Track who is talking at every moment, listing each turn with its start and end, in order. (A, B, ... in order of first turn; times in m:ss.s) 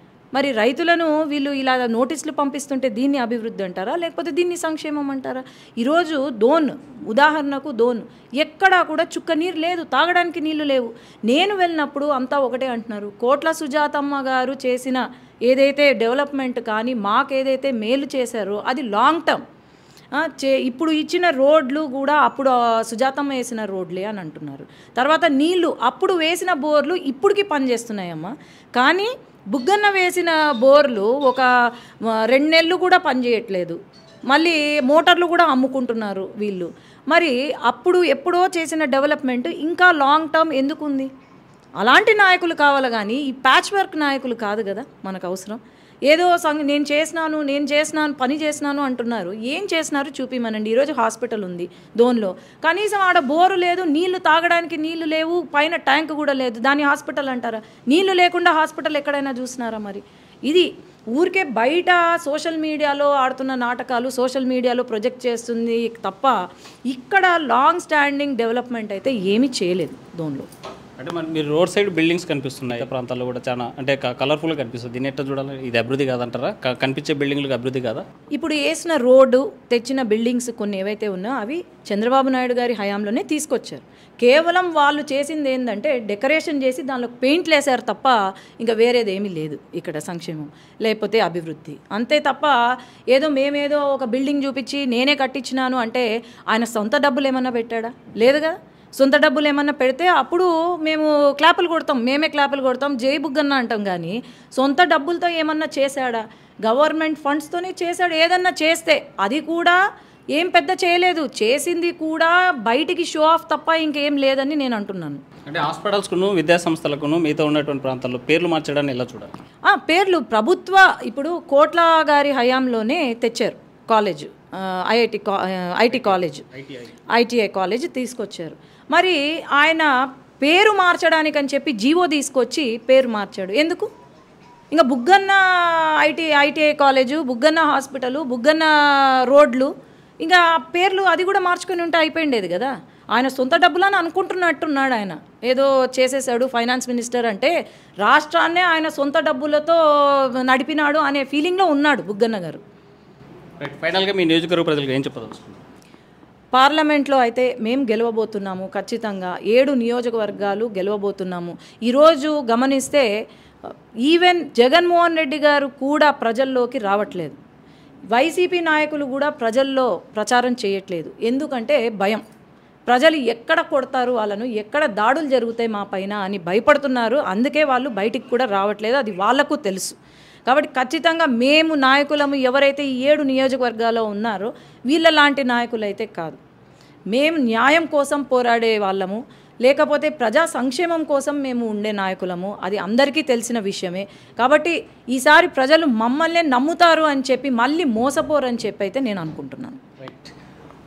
0:00.3-0:19.4 A
0:20.2-0:31.5 A
0:32.3-0:33.8 A
0:34.3-0:41.1 A
0:41.8-1:06.3 A
1:06.9-1:10.5 A
1:11.0-1:18.0 B
1:18.3-1:32.5 A
1:33.1-1:49.8 A
1:50.4-1:55.2 A
1:55.5-1:59.3 B
1:59.7-2:06.4 A
2:05.9-2:06.9 B
2:07.1-2:09.9 A
2:10.4-2:13.9 A
2:14.7-2:18.7 A
2:19.3-2:19.7 A
2:20.2-2:27.5 A
2:28.0-2:29.8 A
2:30.5-2:32.6 A
2:33.6-2:35.6 B
2:36.5-2:43.1 A
2:43.6-2:47.4 A
2:48.1-2:52.2 A
2:52.9-3:06.4 A
3:07.1-3:19.8 A
3:20.0-3:20.3 B